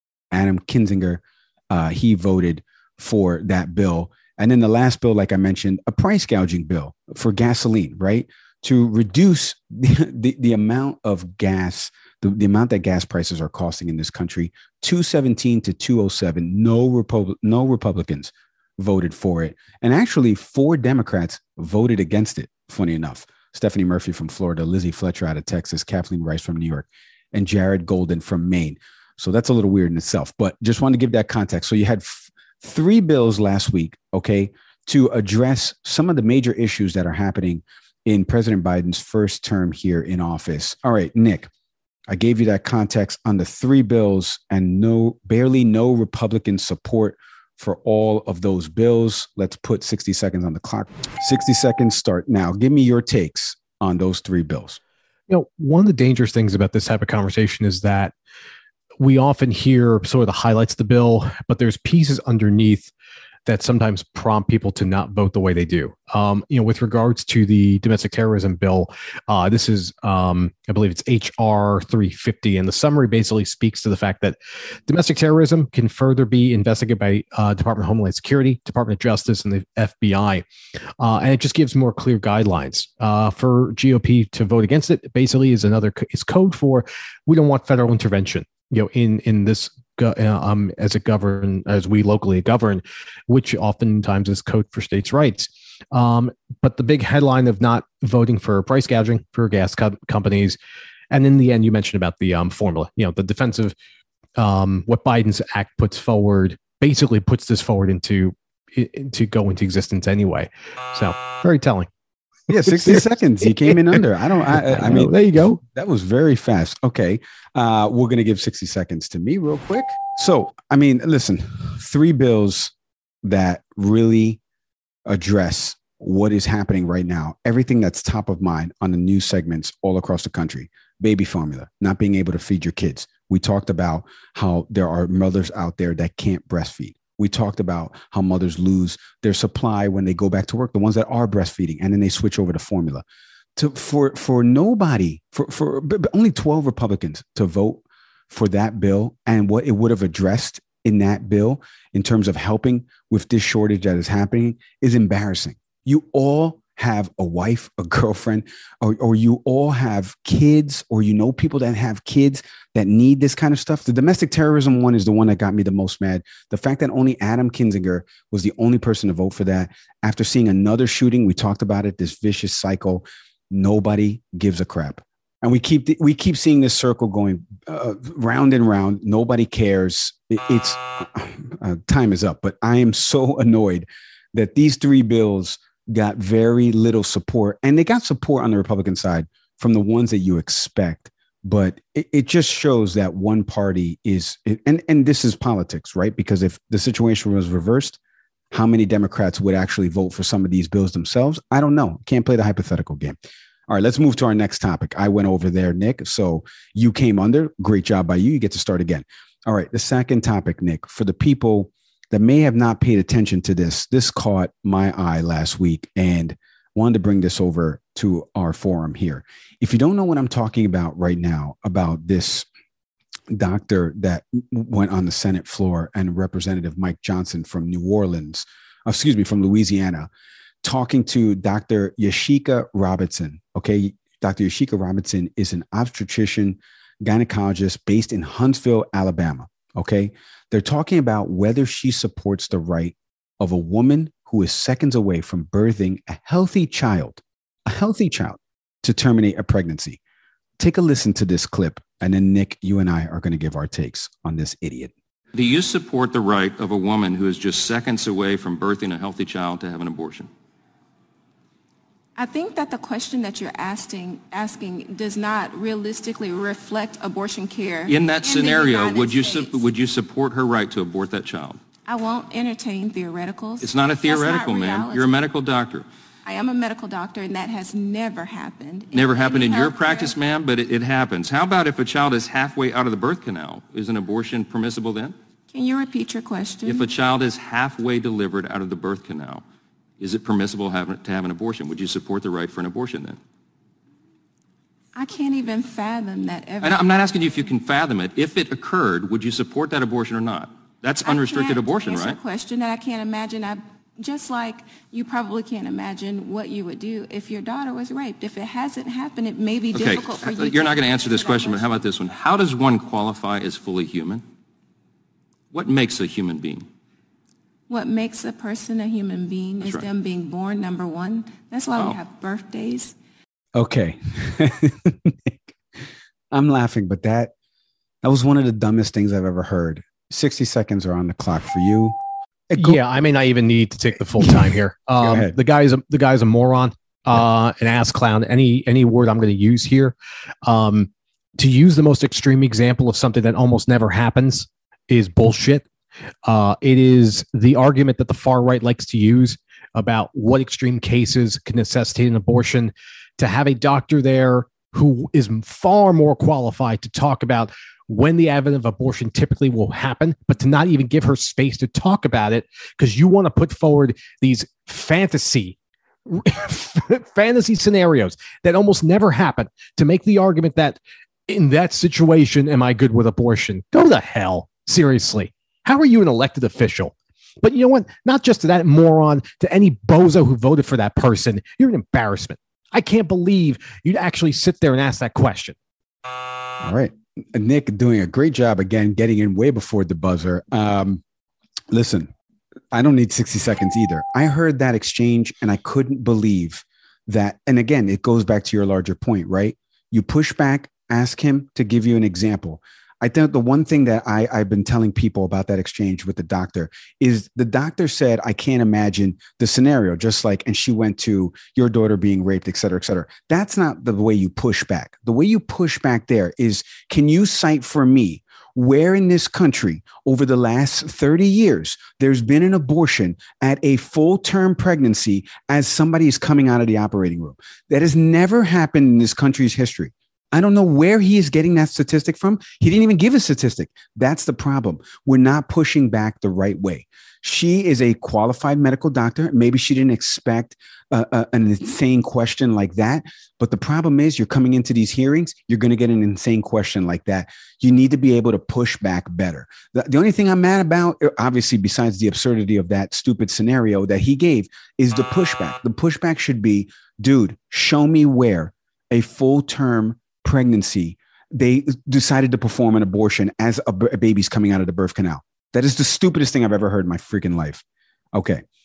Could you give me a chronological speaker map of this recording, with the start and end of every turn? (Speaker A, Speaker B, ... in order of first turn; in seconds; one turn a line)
Speaker A: 0.3-41.5
Speaker A: 42.1-54.8
Speaker B: 55.3-58.1
Speaker B: 59.0-62.9
Speaker B: 63.5-80.4
Speaker B: 81.0-100.6
Speaker B: 101.1-103.7
Speaker B: 104.4-111.9
Speaker A: 112.5-124.4
Speaker B: 112.6-115.6
Speaker A: 125.0-143.0
Speaker A: 143.6-198.0
Speaker A: 198.5-203.2
Speaker A: 203.7-222.5
Speaker A: 223.3-230.1
Speaker A: 230.6-250.0
Speaker A: 250.6-254.9
Speaker C: 255.3-260.3
Speaker D: 262.1-269.7
Speaker C: 267.9-271.6
Speaker D: 271.8-275.2
Speaker C: 273.6-275.9
Speaker D: 276.2-280.1
Speaker C: 278.9-285.1
Speaker D: 285.5-286.9
Speaker C: 286.6-289.4
Speaker C: 290.0-293.2
Speaker D: 294.9-297.2
Speaker C: 296.6-302.2
Speaker D: 301.0-311.8
Speaker C: 309.7-314.2
Speaker C: 315.5-316.6
Speaker D: 317.7-322.9
Speaker C: 319.6-319.9
Speaker A: 323.5-325.5
Speaker A: 326.3-327.3
Speaker A: 328.0-332.0
Speaker A: 332.5-332.8
Speaker B: 332.6-339.9
Speaker A: 334.1-335.4
Speaker B: 340.4-345.6
Speaker B: 346.2-385.6
Speaker A: 386.6-391.0
Speaker A: 391.7-392.1
Speaker A: 392.7-467.6
Speaker A: 468.1-468.4